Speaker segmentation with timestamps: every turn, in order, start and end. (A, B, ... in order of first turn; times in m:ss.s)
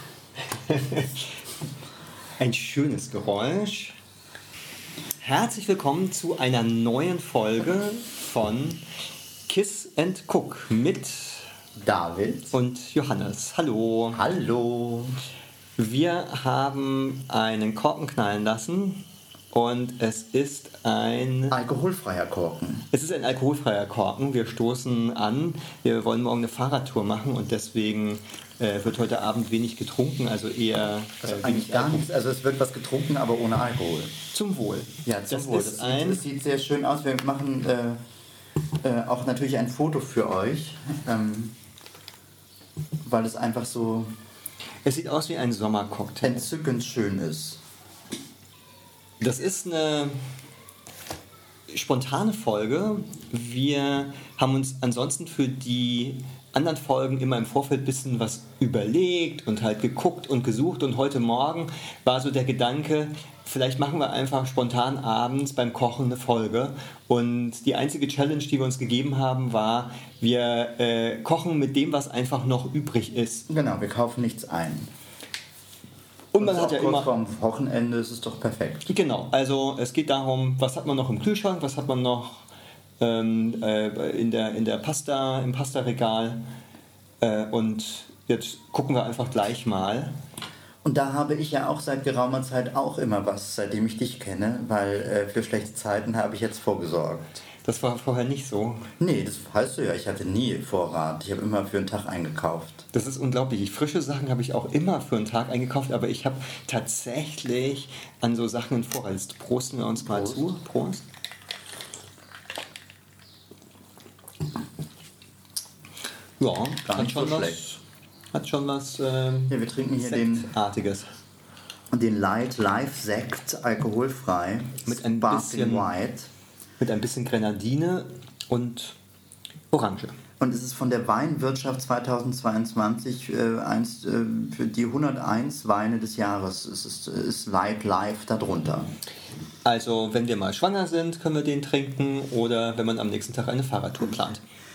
0:00.5-0:01.3 A
0:02.4-0:04.0 A
0:05.2-0:08.8 A
0:09.5-0:11.5 A
0:11.8-0:12.5 B
0:12.5-0:14.2 A
0:14.1-0:15.2 B
0:15.8-0:21.6 A
0:21.5-0:22.8 B
0:22.9-0:32.0 A
0:31.2-0:34.1 B
0:34.3-0:36.2 A
0:35.0-0:38.0 B
0:38.8-0:41.5 B
0:43.0-0:44.1 B
0:44.8-0:46.5 A
0:46.2-0:47.6 B
0:49.2-0:50.2 A
0:51.7-1:13.5 A
1:13.5-1:14.9 B
1:16.3-1:17.1 A
1:16.4-1:18.9 B
1:18.9-1:22.5 A
1:23.0-1:26.4 A
1:27.2-1:30.1 A
1:30.8-1:37.4 B
1:37.6-1:38.9 A
1:39.0-1:42.8 B
1:42.9-1:51.0 A
1:50.0-1:50.4 B
1:56.4-1:57.8 A
1:56.8-1:57.6 B
1:58.3-2:01.1 A
1:59.5-2:00.5 B
2:01.9-2:06.3 B
2:04.8-2:05.9 A
2:06.8-2:09.0 A
2:09.7-2:10.2 A
2:10.4-2:18.9 B
2:19.6-2:24.4 A